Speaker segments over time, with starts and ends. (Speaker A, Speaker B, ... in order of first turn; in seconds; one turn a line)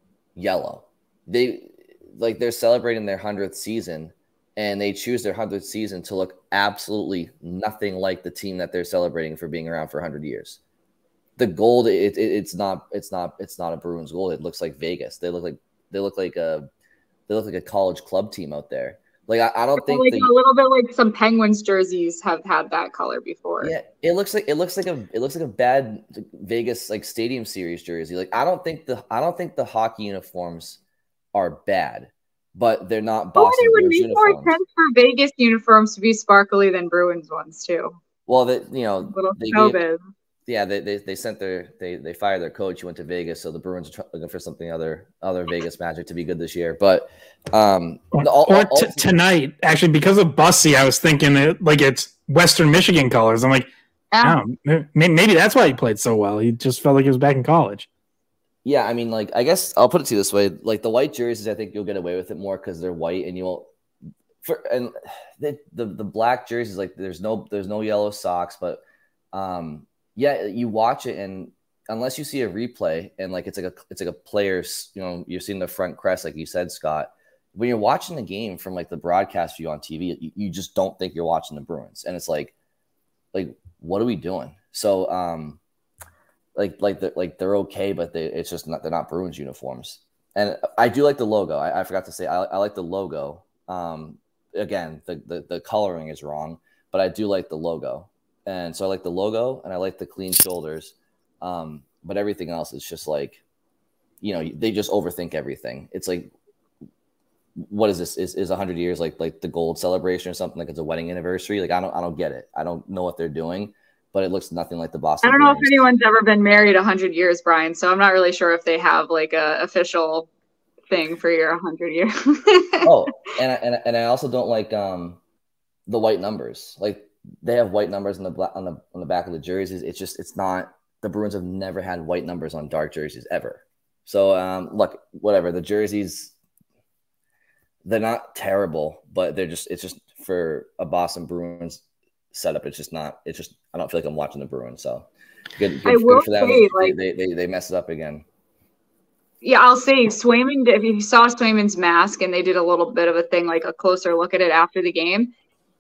Speaker A: 0.4-10.6
Speaker A: 11.4-16.7
Speaker A: 17.3-20.3
Speaker B: 19.8-23.7
Speaker A: 23.6-30.8
Speaker A: 31.3-34.5
Speaker B: 33.4-38.0
Speaker A: 38.3-39.8
Speaker B: 39.1-40.0
Speaker A: 40.5-49.1
Speaker C: 48.2-53.7
Speaker B: 54.1-54.4
Speaker C: 54.2-57.9
Speaker A: 58.6-63.7
Speaker A: 64.4-68.8
Speaker A: 69.3-82.5
Speaker A: 83.3-85.6
Speaker A: 86.6-103.4
Speaker A: 104.2-106.3
Speaker A: 107.6-115.8
Speaker B: 115.2-120.3
Speaker B: 120.9-122.9
Speaker A: 122.8-125.2
Speaker A: 125.9-136.3
Speaker A: 137.8-141.8
Speaker A: 142.3-148.2
Speaker B: 145.9-146.9
Speaker B: 149.4-155.3